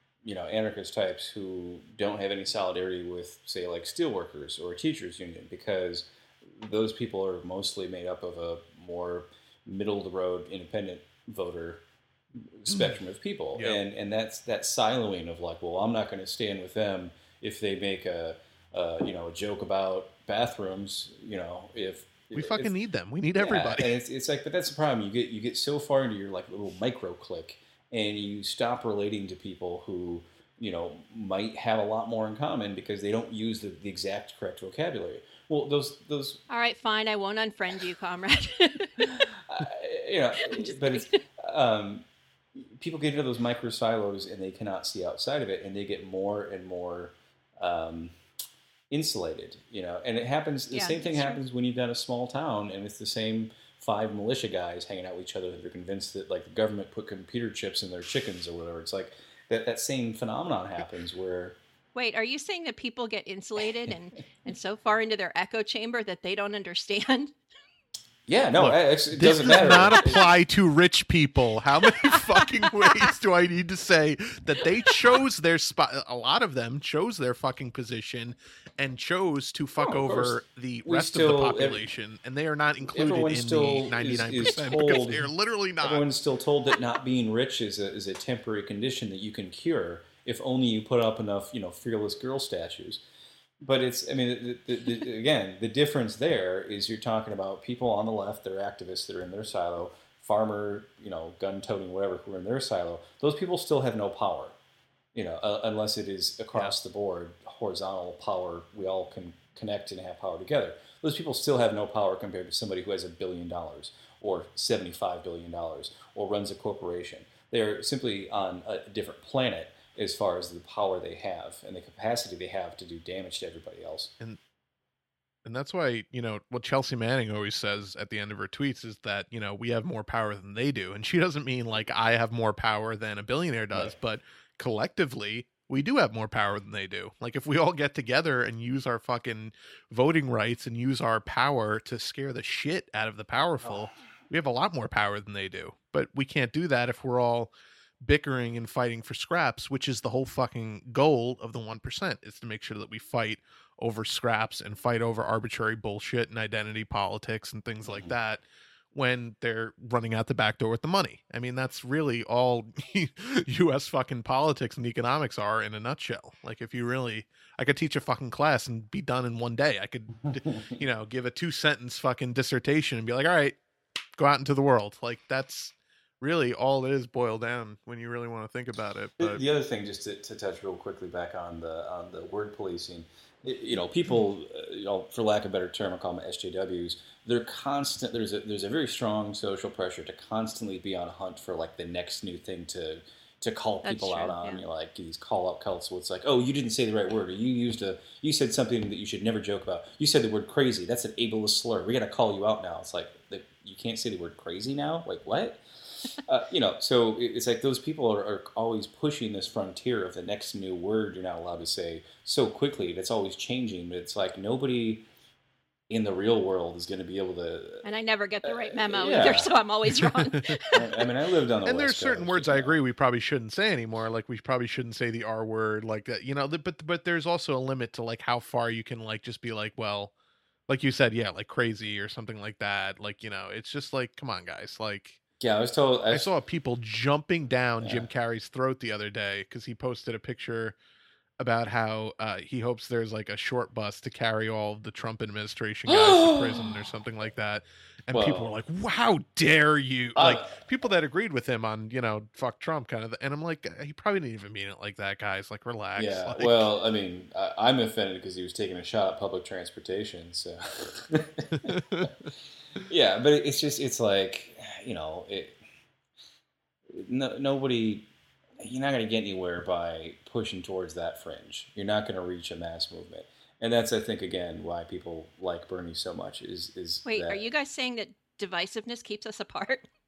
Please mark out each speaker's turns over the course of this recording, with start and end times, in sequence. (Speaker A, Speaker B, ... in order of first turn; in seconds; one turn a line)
Speaker A: 0.2-11.8
Speaker A: 12.5-22.7
Speaker B: 12.7-13.0
Speaker B: 22.3-23.9
Speaker A: 23.4-36.4
Speaker C: 36.5-39.3
Speaker A: 39.0-42.0
Speaker C: 40.4-41.2
Speaker A: 42.6-48.1
Speaker A: 48.9-61.6
Speaker C: 50.7-51.4
Speaker C: 61.9-67.3
Speaker A: 68.3-70.3
Speaker B: 68.6-86.1
Speaker C: 72.6-73.1
Speaker A: 79.8-81.8
Speaker A: 82.9-85.3
Speaker A: 85.8-93.0
Speaker A: 93.6-104.5
Speaker A: 105.1-124.1
Speaker B: 125.5-158.4
Speaker A: 157.9-158.1
Speaker B: 158.9-173.6
Speaker B: 174.2-179.4
Speaker A: 179.2-215.1
Speaker C: 193.8-194.6
Speaker A: 215.9-217.8
Speaker C: 217.8-220.8
Speaker A: 218.4-219.5
Speaker B: 219.9-220.6
Speaker A: 220.7-222.8
Speaker B: 221.6-230.1
Speaker B: 230.7-235.2
Speaker A: 235.4-236.3
Speaker B: 236.1-240.8
Speaker A: 237.8-238.1
Speaker B: 241.4-256.7
Speaker A: 245.9-246.8
Speaker A: 248.1-248.5
Speaker A: 250.1-250.6
Speaker A: 255.9-262.1
Speaker B: 261.5-262.3
Speaker A: 262.8-265.6
Speaker A: 266.9-268.1
Speaker A: 268.6-277.4
Speaker C: 277.1-279.9